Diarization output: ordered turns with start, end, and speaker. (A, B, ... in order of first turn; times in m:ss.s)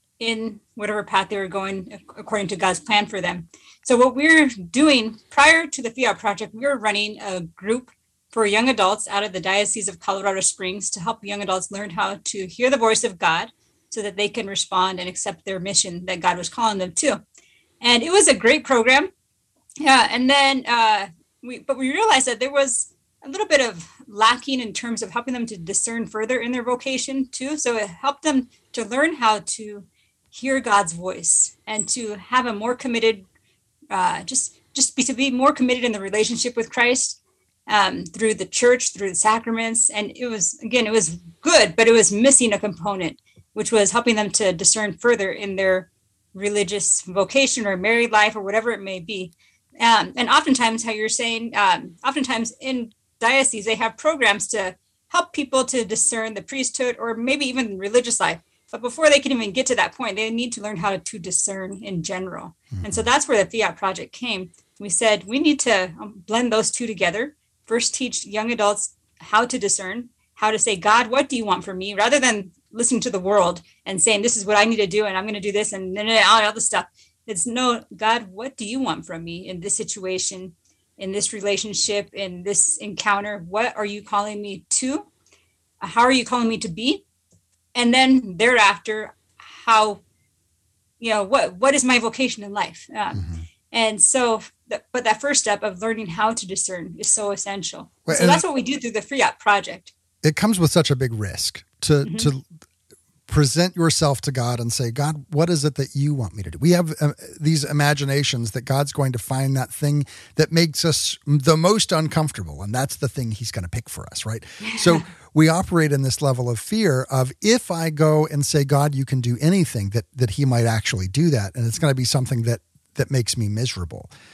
0:00.2-0:17.2 A
0:17.8-0:19.1 A
0:19.8-0:33.2 A
0:33.9-1:25.1 A
1:02.7-1:03.0 B
1:25.8-1:27.0 A
1:27.7-1:30.0 A
1:31.0-1:39.9 A
1:33.2-1:33.4 B
1:38.1-1:38.4 B
1:40.2-1:42.4 B
1:42.0-1:42.3 A
1:43.3-2:04.1 B